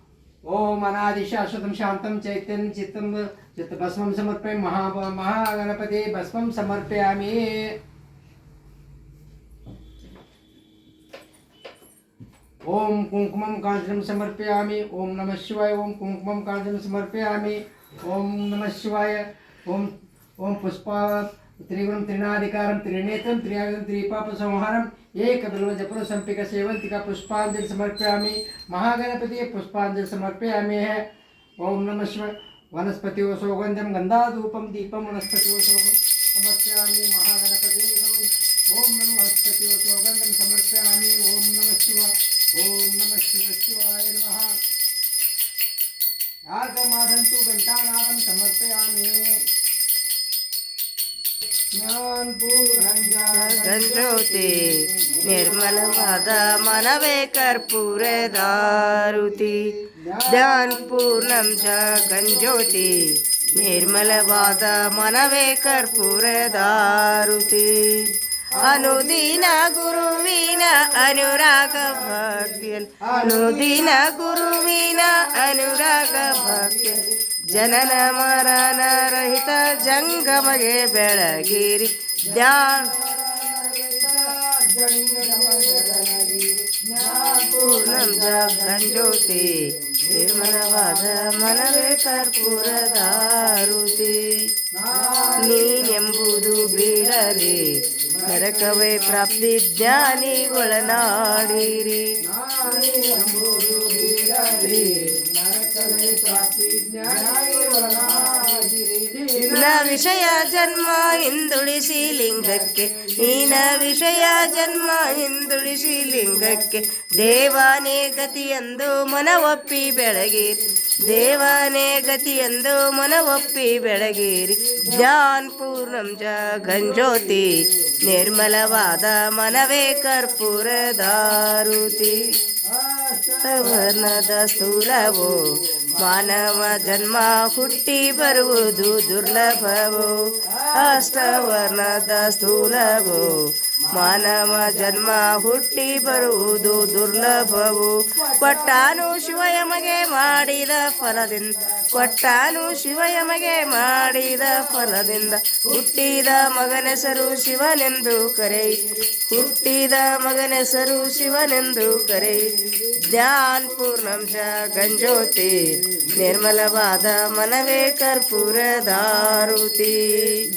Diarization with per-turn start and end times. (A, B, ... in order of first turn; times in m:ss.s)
0:00.5-0:07.7 A
0:12.6-0:31.0 A
0:31.6-0:44.6 A
0:46.5-0:49.4 A
0:51.7-0:56.7 A
0:53.3-0:54.7 B
0:55.2-0:59.6 B
0:58.2-0:59.2 A
0:59.8-1:03.0 A
1:00.3-1:03.0 B
1:03.5-1:04.9 A
1:03.5-1:08.1 B
1:08.5-1:20.7 A
1:08.6-1:22.9 B
1:22.2-1:29.1 A
1:27.3-1:29.5 B
1:29.9-1:33.4 A
1:30.1-1:34.3 B
1:34.7-1:41.7 A
1:35.4-1:37.7 B
1:38.3-1:42.0 B
1:42.2-1:50.3 A
1:49.5-2:12.2 B
1:52.4-1:55.0 A
1:55.9-1:56.7 A
2:06.7-2:07.5 A
2:12.7-2:16.7 A
2:13.4-2:15.4 B
2:15.9-2:23.3 B
2:20.4-2:23.3 A
2:23.9-2:25.3 A
2:23.9-2:50.4 B
2:26.2-2:35.3 A